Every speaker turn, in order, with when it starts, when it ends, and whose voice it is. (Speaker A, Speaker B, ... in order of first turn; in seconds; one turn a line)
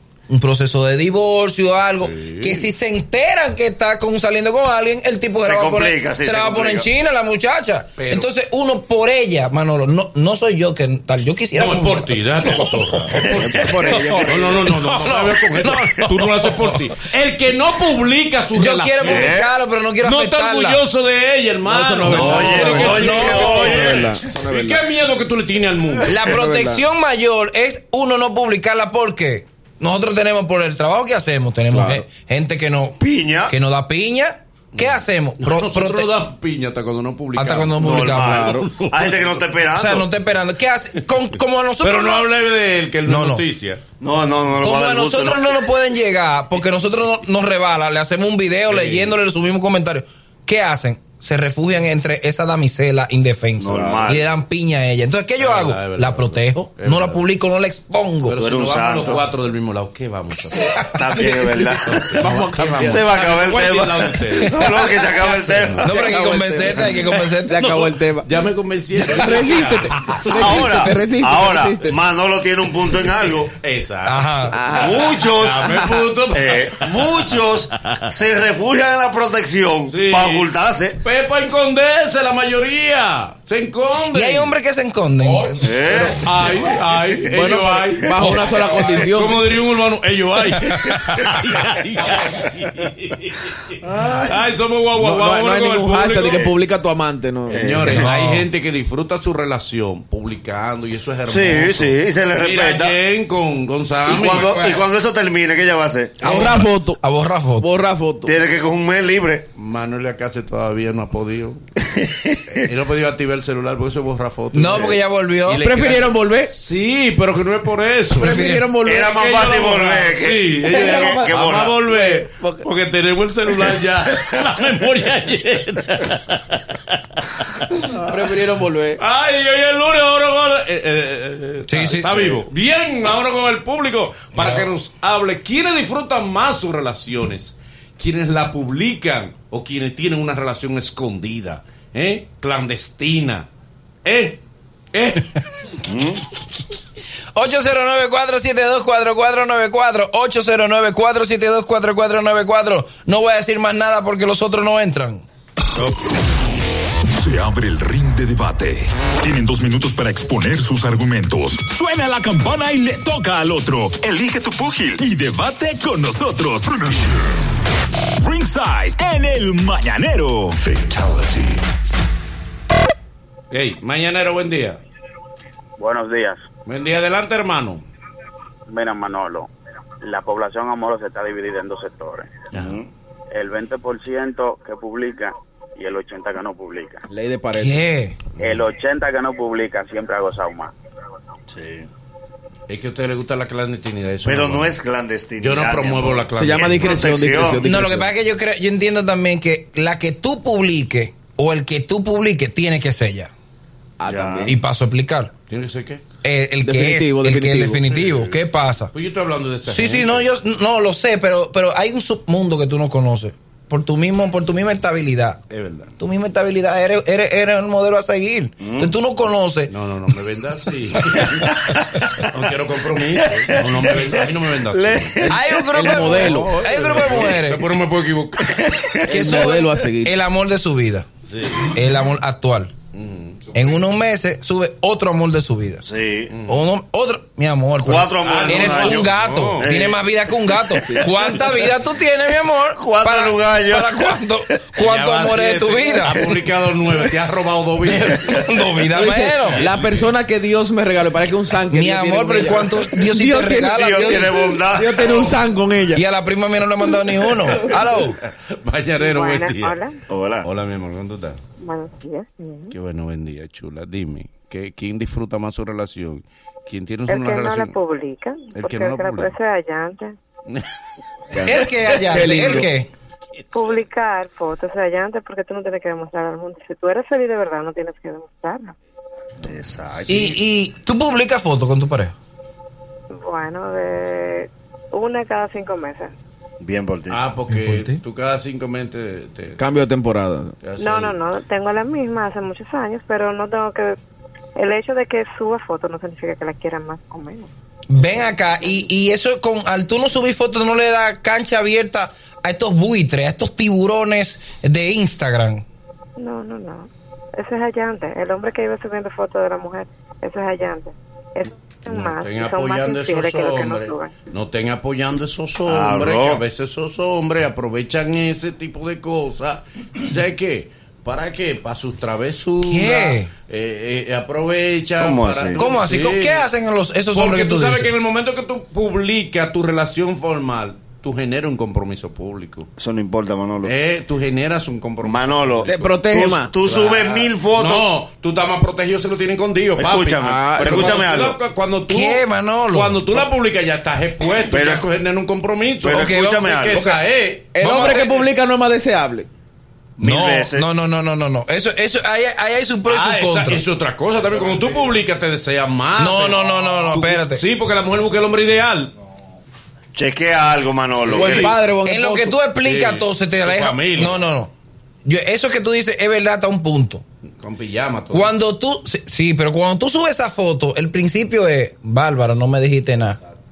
Speaker A: 0.3-13.2
Speaker B: 2.0-2.7
Speaker C: 5.4-6.9
Speaker B: 8.0-8.3
Speaker B: 11.6-19.4
Speaker C: 13.2-13.5
Speaker D: 13.5-14.7
Speaker A: 13.9-16.9
Speaker A: 18.6-20.8
Speaker C: 19.0-19.5
Speaker B: 20.0-26.2
Speaker D: 21.7-24.8
Speaker A: 22.1-23.8
Speaker C: 22.2-24.1
Speaker A: 26.1-36.1
Speaker D: 26.2-26.8
Speaker D: 31.7-32.0
Speaker C: 33.0-33.5
Speaker B: 34.8-39.4
Speaker A: 37.4-38.5
Speaker C: 37.8-40.1
Speaker D: 38.0-38.7
Speaker A: 39.8-42.3
Speaker B: 41.8-43.8
Speaker A: 43.1-43.4
Speaker C: 44.0-45.5
Speaker A: 44.6-58.4
Speaker B: 48.7-49.2
Speaker C: 53.6-54.2
Speaker B: 55.4-57.2
Speaker B: 58.3-65.9
Speaker C: 58.4-59.2
Speaker C: 60.9-62.2
Speaker D: 62.2-63.0
Speaker C: 62.8-66.0
Speaker A: 65.8-67.7
Speaker D: 65.9-68.3
Speaker B: 67.1-70.7
Speaker D: 69.0-72.0
Speaker C: 70.3-73.5
Speaker B: 73.6-77.3
Speaker A: 74.1-74.6
Speaker D: 74.5-75.1
Speaker C: 74.7-75.8
Speaker C: 76.3-81.0
Speaker B: 79.9-80.5
Speaker B: 81.0-84.5
Speaker A: 84.1-85.7
Speaker C: 85.6-86.2
Speaker B: 86.0-93.5
Speaker D: 87.3-89.4
Speaker A: 88.2-88.5
Speaker A: 90.7-91.2
Speaker C: 93.9-94.3
Speaker B: 94.2-96.5
Speaker D: 95.0-97.7
Speaker B: 97.5-104.8
Speaker C: 97.5-98.0
Speaker A: 97.9-98.5
Speaker C: 101.3-103.0
Speaker C: 104.0-106.4
Speaker A: 106.2-107.7
Speaker D: 106.2-107.0
Speaker D: 107.6-108.3
Speaker C: 108.3-109.5
Speaker B: 109.6-111.6
Speaker C: 111.9-112.4
Speaker B: 112.5-118.4
Speaker A: 114.5-115.7
Speaker D: 115.6-116.5
Speaker D: 118.2-119.2
Speaker A: 118.2-118.7
Speaker C: 118.8-121.8
Speaker B: 119.0-127.0
Speaker D: 120.7-121.3
Speaker D: 121.8-122.6
Speaker D: 128.0-129.0
Speaker B: 129.0-143.5
Speaker A: 131.7-132.2
Speaker B: 144.1-144.4
Speaker B: 144.9-145.3
Speaker C: 145.8-146.2
Speaker A: 147.3-155.2
Speaker E: 157.1-167.2
Speaker E: 168.2-171.6
Speaker B: 173.5-174.8
Speaker F: 175.8-176.5
Speaker B: 176.7-177.8
Speaker F: 178.7-179.5
Speaker F: 180.0-182.4
Speaker B: 182.5-182.8
Speaker C: 182.5-182.9
Speaker F: 183.3-187.0
Speaker D: 187.1-187.8
Speaker A: 187.6-188.2
Speaker F: 188.4-190.7
Speaker C: 191.5-191.9
Speaker B: 192.7-194.7
Speaker C: 194.2-197.7
Speaker B: 195.4-197.0
Speaker D: 196.3-198.1
Speaker A: 197.6-203.3
Speaker D: 204.0-204.6
Speaker C: 204.1-204.5
Speaker A: 204.5-205.3
Speaker B: 205.5-206.0
Speaker A: 206.2-208.9
Speaker D: 206.6-207.8
Speaker B: 207.9-208.4
Speaker B: 208.9-210.2
Speaker A: 209.7-215.4
Speaker B: 215.5-215.9
Speaker A: 216.0-219.7
Speaker C: 218.6-218.9
Speaker B: 219.7-225.1
Speaker C: 221.1-222.2
Speaker C: 223.2-225.7
Speaker D: 225.2-226.6
Speaker A: 225.3-227.7
Speaker B: 226.2-228.8
Speaker C: 228.6-229.3
Speaker D: 229.1-230.1
Speaker A: 229.1-231.1
Speaker B: 231.3-231.8
Speaker A: 231.7-232.7
Speaker B: 232.9-233.5
Speaker A: 233.5-235.8
Speaker C: 235.8-236.3
Speaker B: 236.3-236.6
Speaker A: 236.5-246.3
Speaker C: 237.8-240.0
Speaker B: 238.2-239.7
Speaker C: 242.8-244.1
Speaker B: 244.8-248.5
Speaker A: 248.3-249.6
Speaker D: 248.9-256.0
Speaker B: 249.5-250.0
Speaker A: 251.7-254.4
Speaker C: 253.7-255.4
Speaker A: 255.9-258.2
Speaker B: 257.5-259.9
Speaker G: 259.0-260.0
Speaker C: 260.1-260.5
Speaker B: 260.4-261.4
Speaker G: 261.6-262.8
Speaker B: 262.7-267.8
Speaker G: 267.1-270.2
Speaker B: 268.6-269.4
Speaker D: 271.3-272.7
Speaker A: 271.4-272.9
Speaker G: 273.5-278.8
Speaker C: 279.4-280.4
Speaker A: 280.1-282.1
Speaker G: 283.1-286.1
Speaker C: 286.6-287.2
Speaker B: 287.1-289.6
Speaker D: 289.6-290.6
Speaker B: 290.6-291.2
Speaker G: 290.8-294.0
Speaker G: 294.6-297.5
Speaker A: 297.9-305.6
Speaker G: 306.2-314.1
Speaker B: 311.9-326.5
Speaker C: 315.7-316.4
Speaker A: 322.6-323.3
Speaker C: 325.0-325.6
Speaker A: 325.6-327.9
Speaker B: 327.1-332.7
Speaker C: 332.8-333.7
Speaker B: 333.6-335.9
Speaker C: 335.0-337.9
Speaker D: 335.7-336.5
Speaker B: 336.6-348.2
Speaker C: 339.8-341.4
Speaker D: 340.2-341.1
Speaker A: 341.9-343.2
Speaker C: 344.5-344.9
Speaker C: 345.8-347.0
Speaker A: 345.9-346.9
Speaker D: 347.5-349.3
Speaker A: 347.6-348.2
Speaker C: 350.0-350.7
Speaker A: 350.0-353.6
Speaker B: 352.9-358.9
Speaker A: 356.0-357.4
Speaker C: 359.9-361.5
Speaker B: 361.1-361.5
Speaker D: 361.1-362.4
Speaker A: 361.8-364.5
Speaker B: 362.6-364.2
Speaker A: 365.1-367.0
Speaker B: 367.4-368.4
Speaker A: 368.1-373.2